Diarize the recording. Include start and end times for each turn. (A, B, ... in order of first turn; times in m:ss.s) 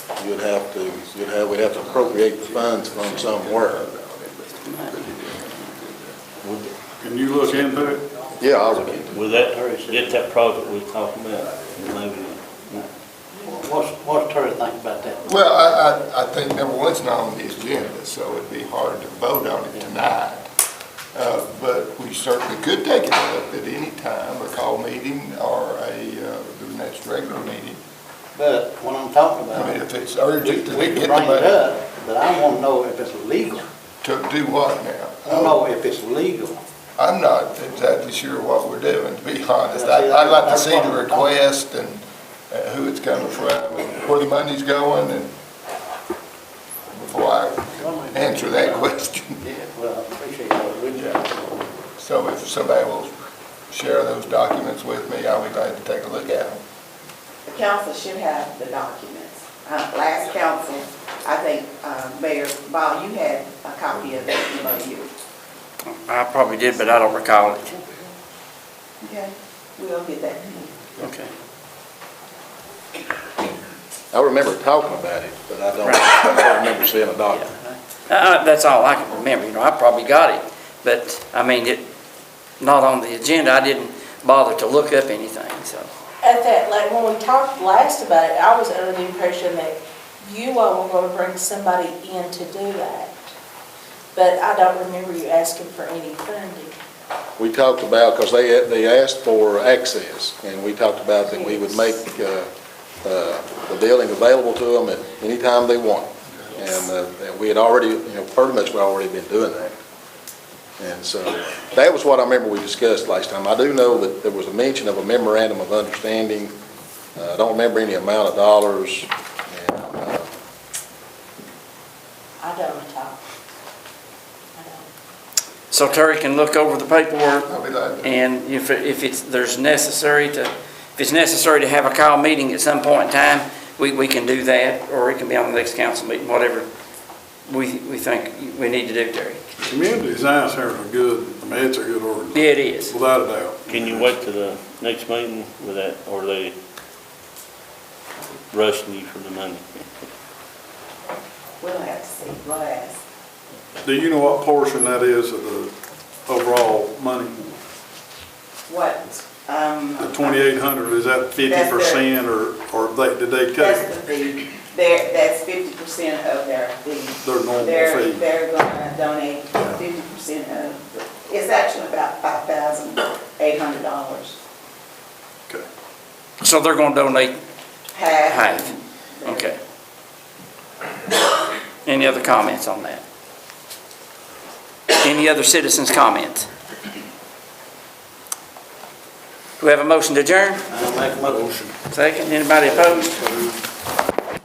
0:00.2-0:03.8 A
0:02.1-0:06.2 B
0:04.6-0:04.9 C
0:06.4-0:06.7 D
0:07.0-0:08.0 E
0:08.4-0:09.2 A
0:09.1-0:12.9 D
0:09.3-0:10.3 F
0:13.4-0:15.3 F
0:15.2-0:20.5 B
0:21.1-0:27.8 B
0:28.3-0:29.8 F
0:29.5-0:31.6 B
0:30.4-0:33.6 F
0:34.0-0:35.6 B
0:35.2-0:36.6 F
0:37.0-0:45.3 B
0:39.7-0:41.4 F
0:46.9-0:49.4 B
0:47.8-0:51.4 F
0:52.0-0:53.1 B
0:53.7-0:56.6 B
0:57.4-1:05.1 G
1:05.8-1:07.8 C
1:09.0-1:10.7 G
1:11.0-1:11.3 C
1:14.1-1:17.4 A
1:15.8-1:16.1 C
1:18.1-1:21.8 C
1:22.6-1:25.9 C
1:26.2-1:33.1 H
1:34.1-1:36.7 H
1:37.4-1:42.5 A
1:41.3-1:41.6 H
1:43.0-1:49.7 A
1:50.8-1:56.5 A
1:57.2-2:00.3 A
2:02.4-2:03.2 H
2:04.6-2:04.9 H
2:05.7-2:16.7 C
2:07.5-2:08.2 B
2:17.5-2:19.4 C
2:19.6-2:24.0 E
2:22.3-2:22.9 C
2:23.6-2:26.5 D
2:28.5-2:29.8 D
2:31.6-2:33.0 G
2:33.8-2:35.7 E
2:36.3-2:37.5 E
2:38.7-2:40.4 G
2:40.0-2:43.9 E
2:41.4-2:42.0 G
2:43.5-2:54.4 G
2:47.2-2:48.2 E
2:56.4-2:57.4 C
2:57.9-2:59.5 G
2:58.2-2:58.7 C
2:59.2-2:59.6 C
3:01.8-3:03.0 C
3:04.9-3:06.5 C
3:09.6-3:10.6 C
3:10.7-3:11.8 F
3:11.9-3:13.2 C
3:12.6-3:13.6 F